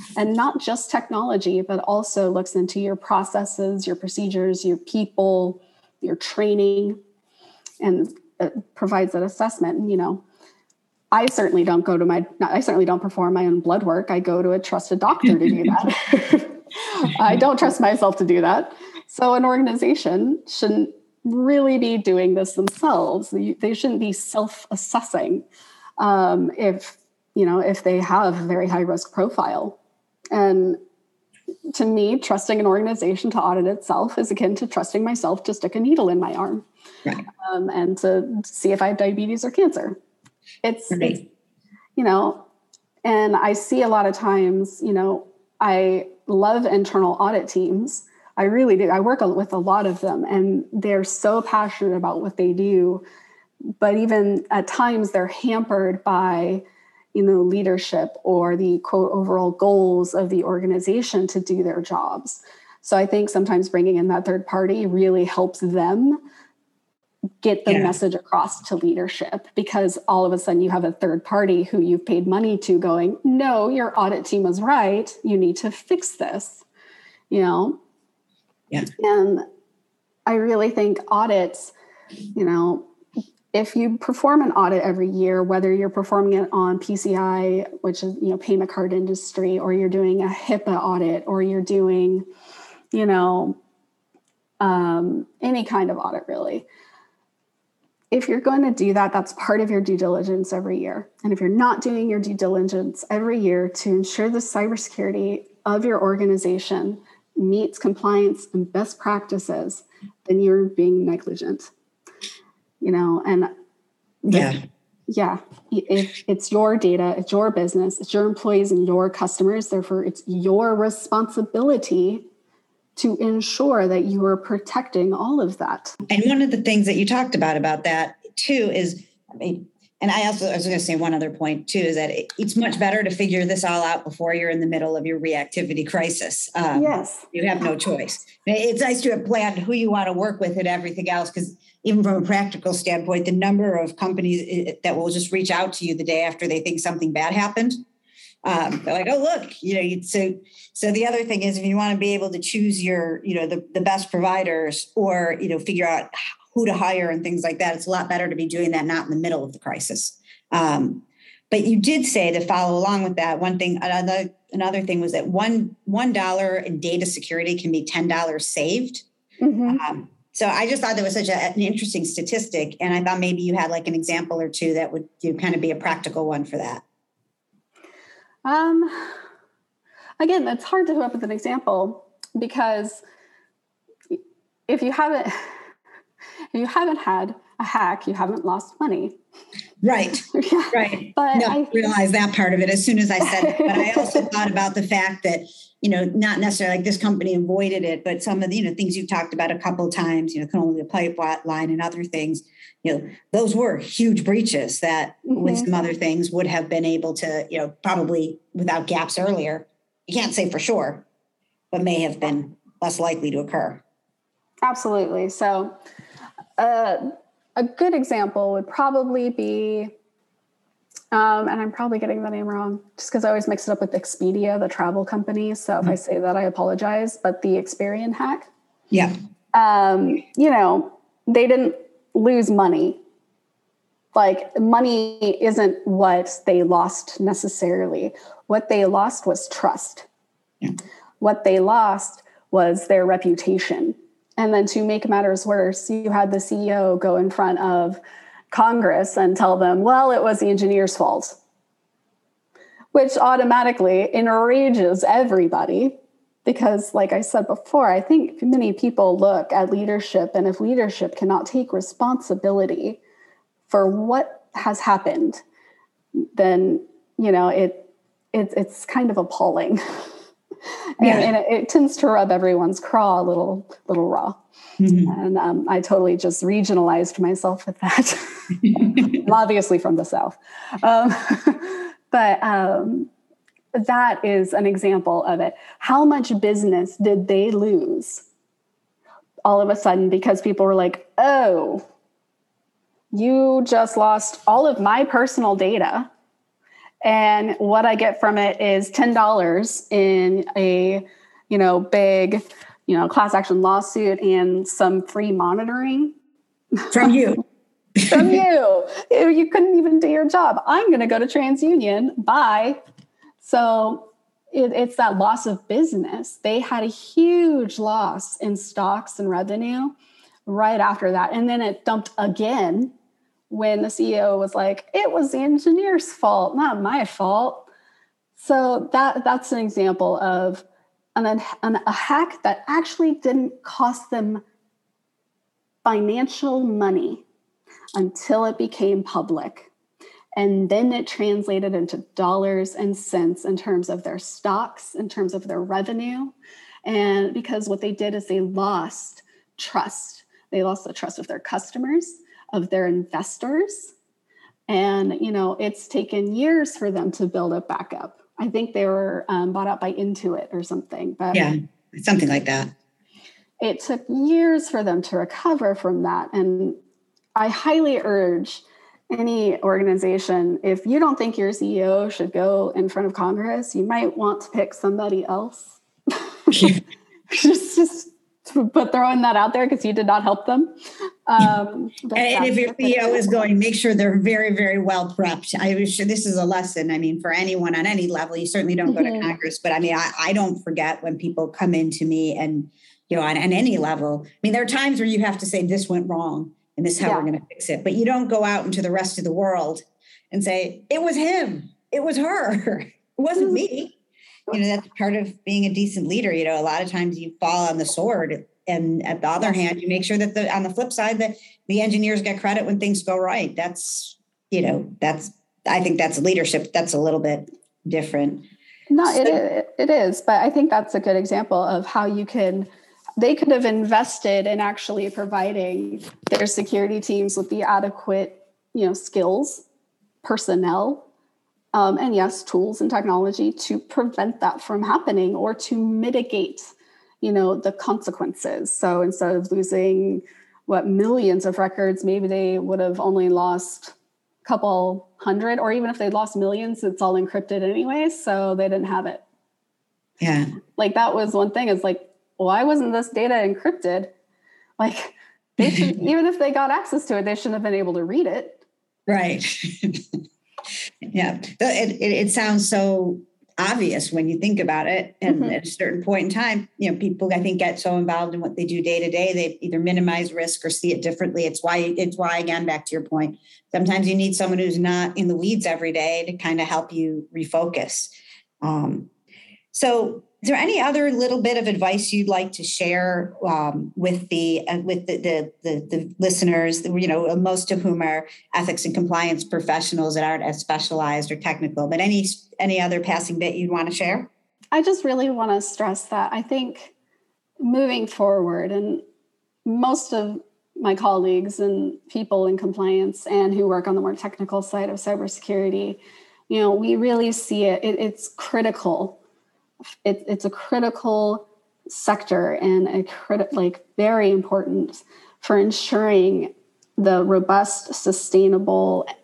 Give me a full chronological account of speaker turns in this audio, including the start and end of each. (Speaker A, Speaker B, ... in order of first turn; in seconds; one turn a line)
Speaker A: 0.2-7.0
Speaker A: 7.8-10.2
Speaker A: 11.1-25.4
Speaker A: 26.0-29.8
Speaker A: 30.3-30.8
Speaker A: 31.7-36.7
Speaker A: 37.3-40.0
Speaker A: 40.6-41.2
Speaker B: 40.9-41.2
Speaker A: 42.0-42.5
Speaker A: 43.0-53.0
Speaker A: 53.8-56.6
Speaker A: 57.1-66.2
Speaker A: 67.4-76.6
Speaker B: 67.7-68.0
Speaker A: 77.3-77.8
Speaker A: 79.0-79.5
Speaker A: 80.3-81.7
Speaker A: 82.3-82.9
Speaker A: 83.5-92.3
Speaker A: 92.9-93.6
Speaker A: 94.6-96.7
Speaker A: 98.1-111.7
Speaker A: 112.8-113.5
Speaker A: 114.3-114.5
Speaker B: 114.3-114.6
Speaker A: 115.1-122.2
Speaker A: 123.0-126.0
Speaker B: 126.1-147.8
Speaker A: 136.7-137.3
Speaker B: 148.4-169.0
Speaker A: 169.4-169.8
Speaker B: 169.7-176.8
Speaker A: 178.4-179.1
Speaker A: 180.2-183.0
Speaker A: 184.1-185.5
Speaker A: 186.5-189.2
Speaker B: 189.8-211.1
Speaker A: 190.3-191.8
Speaker A: 193.2-194.3
Speaker A: 205.3-205.7
Speaker B: 211.7-213.8
Speaker A: 214.6-215.7
Speaker A: 216.6-219.9
Speaker A: 221.1-228.5
Speaker A: 229.5-233.0
Speaker A: 234.1-240.1
Speaker A: 241.2-248.0
Speaker A: 248.5-251.4
Speaker A: 252.9-255.9
Speaker A: 256.4-263.0
Speaker A: 263.7-265.4
Speaker A: 266.2-270.1
Speaker A: 271.0-274.4
Speaker B: 271.0-271.3
Speaker B: 274.8-275.1
Speaker A: 275.1-283.1
Speaker A: 283.7-288.2
Speaker A: 289.5-291.8
Speaker A: 293.1-296.1
Speaker A: 297.0-306.1
Speaker B: 306.9-307.4
Speaker B: 308.0-308.4
Speaker A: 308.1-312.8
Speaker A: 313.4-319.9
Speaker A: 320.5-322.9
Speaker A: 323.5-327.7
Speaker A: 328.4-330.6
Speaker A: 331.2-334.4
Speaker A: 335.9-337.2
Speaker A: 338.0-339.7
Speaker A: 340.4-346.3
Speaker A: 346.9-353.9
Speaker A: 354.7-361.5
Speaker B: 361.3-362.7
Speaker A: 363.6-366.8
Speaker A: 367.4-376.8
Speaker B: 376.5-376.8
Speaker A: 377.3-380.7
Speaker A: 381.3-383.5
Speaker B: 382.1-403.9
Speaker A: 388.9-389.3
Speaker A: 397.0-397.3
Speaker A: 403.4-403.6
Speaker B: 404.5-418.5
Speaker A: 418.9-429.6
Speaker B: 419.0-419.4
Speaker A: 430.2-431.1
Speaker A: 431.7-443.9
Speaker A: 444.4-449.2
Speaker B: 450.2-450.5
Speaker A: 450.8-454.1
Speaker A: 454.8-458.6
Speaker B: 459.1-460.0
Speaker B: 461.1-479.1
Speaker A: 465.3-465.5
Speaker B: 479.7-494.3
Speaker A: 494.7-496.9
Speaker A: 497.6-499.0
Speaker A: 499.7-509.2
Speaker A: 510.0-519.1